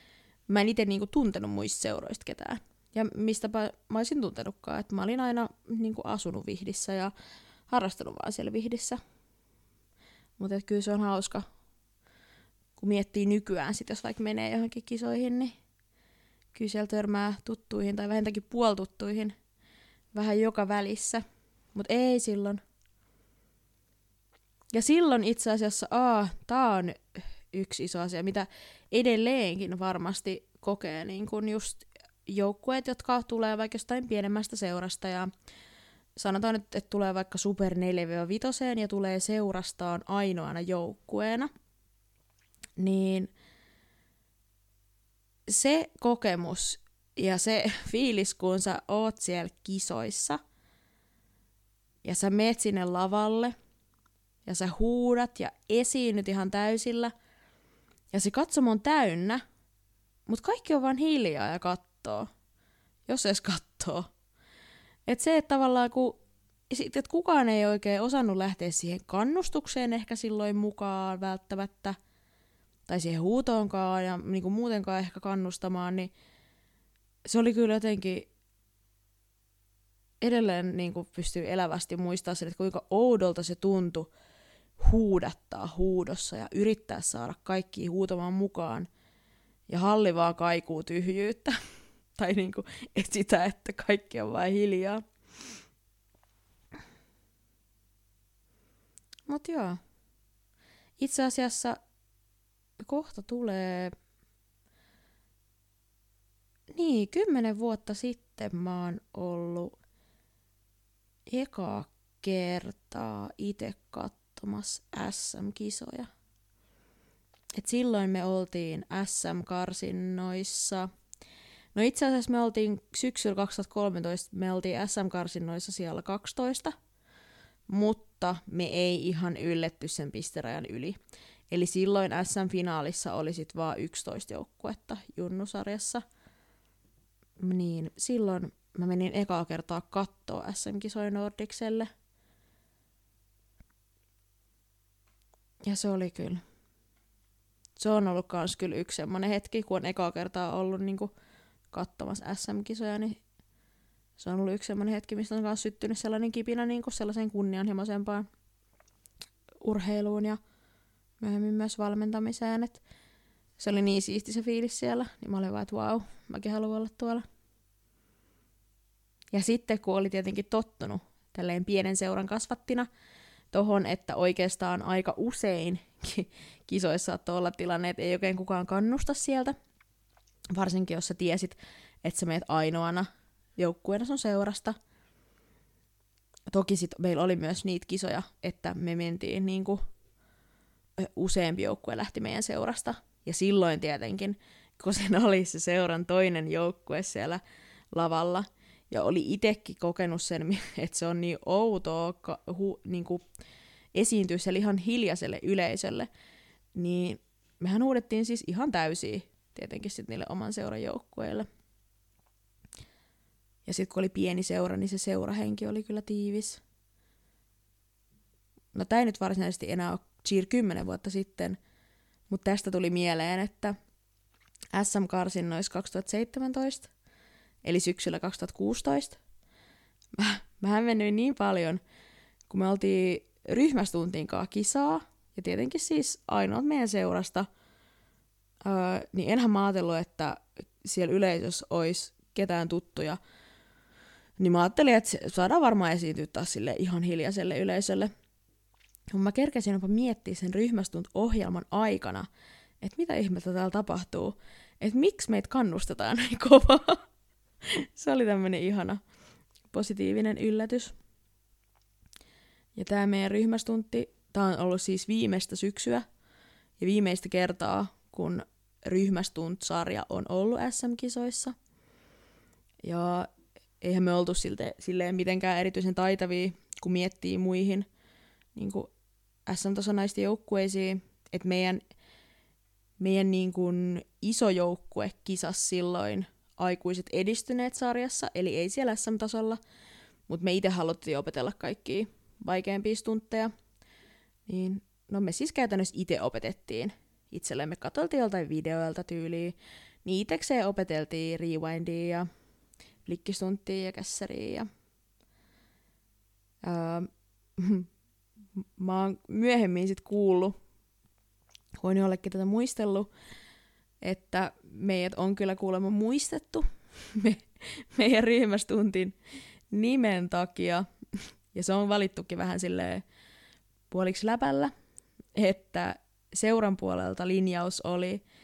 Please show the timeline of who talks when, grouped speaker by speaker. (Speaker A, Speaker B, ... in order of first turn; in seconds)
Speaker A: 0.5-7.1, 7.7-9.0, 10.4-11.5, 12.8-15.5, 16.5-19.4, 20.1-22.6, 24.7-35.3, 36.2-41.5, 42.8-43.3, 45.5-50.4, 52.0-53.5, 54.5-57.1, 58.1-59.4, 60.3-62.3, 63.1-64.1, 65.1-66.2, 66.7-72.0, 72.9-76.1, 77.3-78.3, 80.2-84.1, 84.8-88.9, 89.7-91.6, 92.2-95.0, 99.3-99.8, 101.0-101.8, 102.8-104.0, 106.7-109.8, 111.3-116.1, 117.6-120.9, 121.8-126.7, 127.7-131.0, 131.5-136.0, 137.4-141.9, 145.6-146.4, 147.8-151.1, 151.7-153.2, 154.2-158.3, 159.6-160.4, 161.2-162.8, 163.6-167.2, 169.3-172.9, 173.5-179.6, 180.5-184.8, 186.5-189.8, 191.0-203.2, 203.9-206.1, 206.8-211.5, 213.7-216.6, 218.7-221.6, 222.3-223.8, 224.7-226.9, 227.6-229.2, 230.2-231.8, 232.5-237.5, 238.6-243.2, 244.4-248.1, 249.1-252.3, 252.8-257.0, 257.6-259.0, 259.7-261.0, 262.8-266.1, 266.8-271.6, 272.8-273.3, 273.8-277.9, 278.6-278.9, 279.5-281.8, 283.0-289.6, 290.3-293.5, 294.5-302.3, 303.1-304.7, 306.6-307.9, 308.6-310.6, 311.8-313.1, 314.0-319.1, 319.7-320.9, 321.5-323.0, 323.9-324.7, 325.4-328.2